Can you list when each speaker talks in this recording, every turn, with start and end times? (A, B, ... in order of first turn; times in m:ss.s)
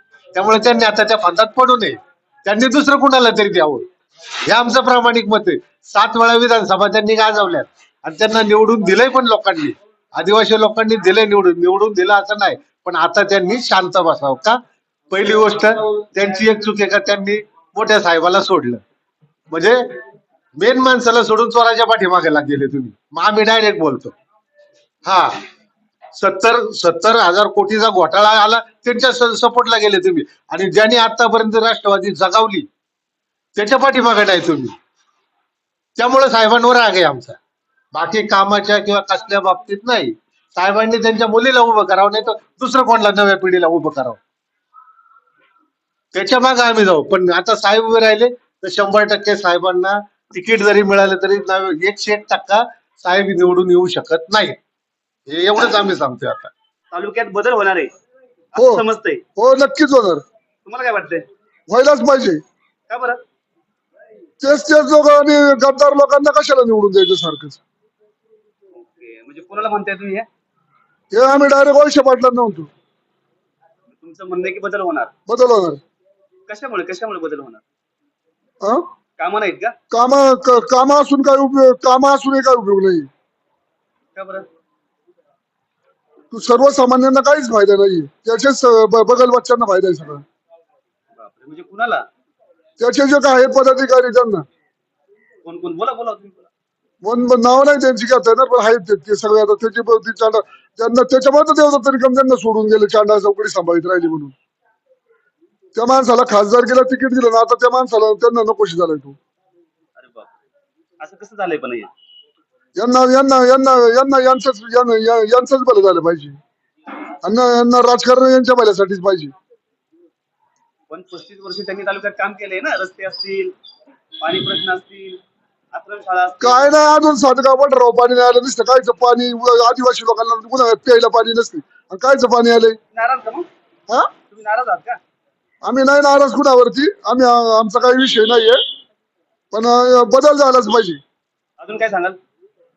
0:00.4-0:03.8 A
0:04.4-0:14.6 A
0:15.1-0:18.8 A
0:19.5-0:19.8 A
0:20.6-0:24.2 A
0:25.0-0:25.4 A
0:26.2-0:32.7 A
0:33.6-0:34.7 A
0:36.0-0:37.4 A
0:37.9-0:44.2 A
0:46.1-0:54.6 A
0:55.3-0:56.5 A
0:56.9-0:57.9 B
0:58.5-0:59.2 B
0:58.6-0:58.8 C
0:59.4-1:00.2 C
1:00.7-1:01.2 B
1:01.7-1:02.4 C
1:02.9-1:03.2 B
1:04.4-1:07.6 C
1:08.8-1:10.3 B
1:11.1-1:12.7 C
1:13.9-1:15.1 B
1:15.3-1:15.8 C
1:16.5-1:17.6 B
1:19.2-1:19.8 B
1:19.9-1:23.1 C
1:24.2-1:24.5 B
1:26.3-1:30.2 C
1:31.2-1:32.0 B
1:32.8-1:34.5 C
1:35.4-1:36.5 B
1:37.0-1:44.3 C
1:45.8-1:49.2 C
1:50.0-1:50.3 B
1:51.0-1:51.9 B
1:52.8-1:56.4 C
1:57.2-1:59.3 C
2:00.9-2:03.5 B
2:04.2-2:05.2 B
2:05.7-2:06.7 B
2:06.4-2:12.8 C
2:12.9-2:13.5 B
2:14.3-2:15.0 B
2:15.6-2:18.6 C
2:19.5-2:21.0 C
2:21.6-2:22.2 B